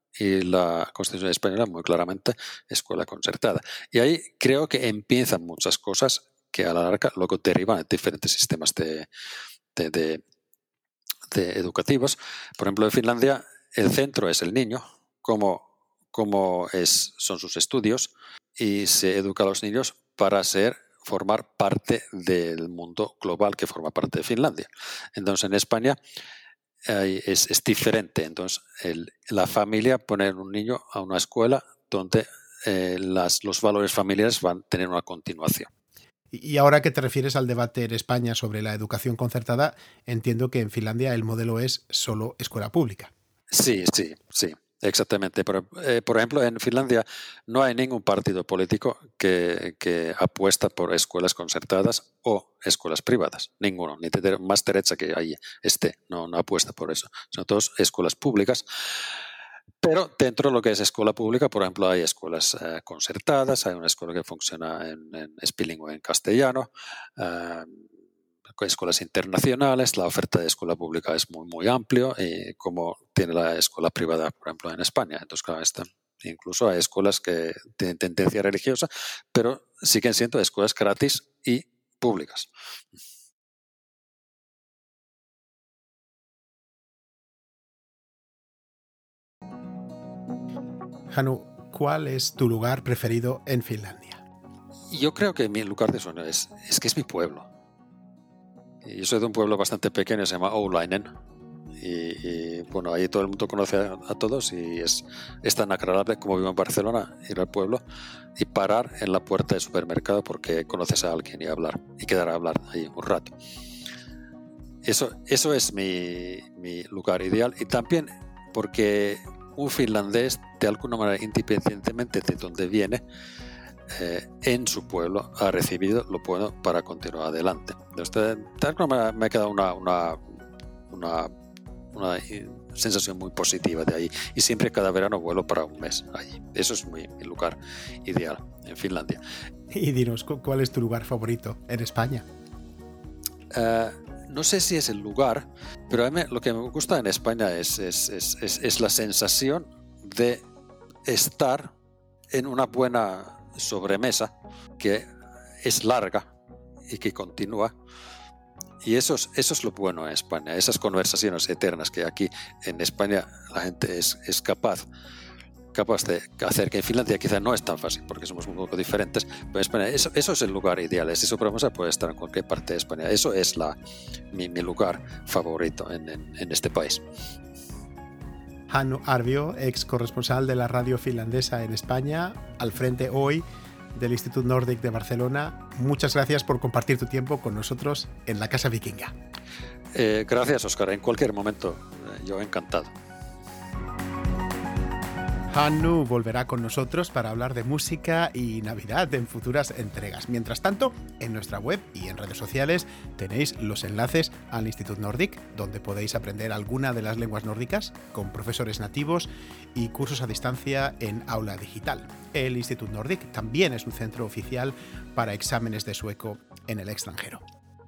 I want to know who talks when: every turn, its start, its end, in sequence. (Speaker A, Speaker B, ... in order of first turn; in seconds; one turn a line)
Speaker A: 0.1-9.1
Speaker A: 9.7-10.2
Speaker A: 11.3-26.0
Speaker A: 26.9-35.7
Speaker B: 36.3-43.1
Speaker A: 43.5-58.6
Speaker A: 59.8-67.8
Speaker A: 68.6-82.5
Speaker B: 91.1-94.2
Speaker A: 94.9-97.5
Speaker A: 98.8-101.1
Speaker A: 101.8-107.8
Speaker A: 108.4-113.3
Speaker A: 114.8-123.0
Speaker A: 123.9-130.2
Speaker A: 130.9-131.3
Speaker A: 131.9-139.2
Speaker B: 139.7-142.2
Speaker A: 143.5-150.4
Speaker A: 151.1-151.7
Speaker A: 152.3-155.1
Speaker A: 155.6-156.2
Speaker A: 156.9-157.7
Speaker A: 158.8-164.8
Speaker A: 165.7-173.8
Speaker A: 174.3-177.0
Speaker B: 178.7-189.1
Speaker A: 189.9-192.9
Speaker B: 195.5-217.4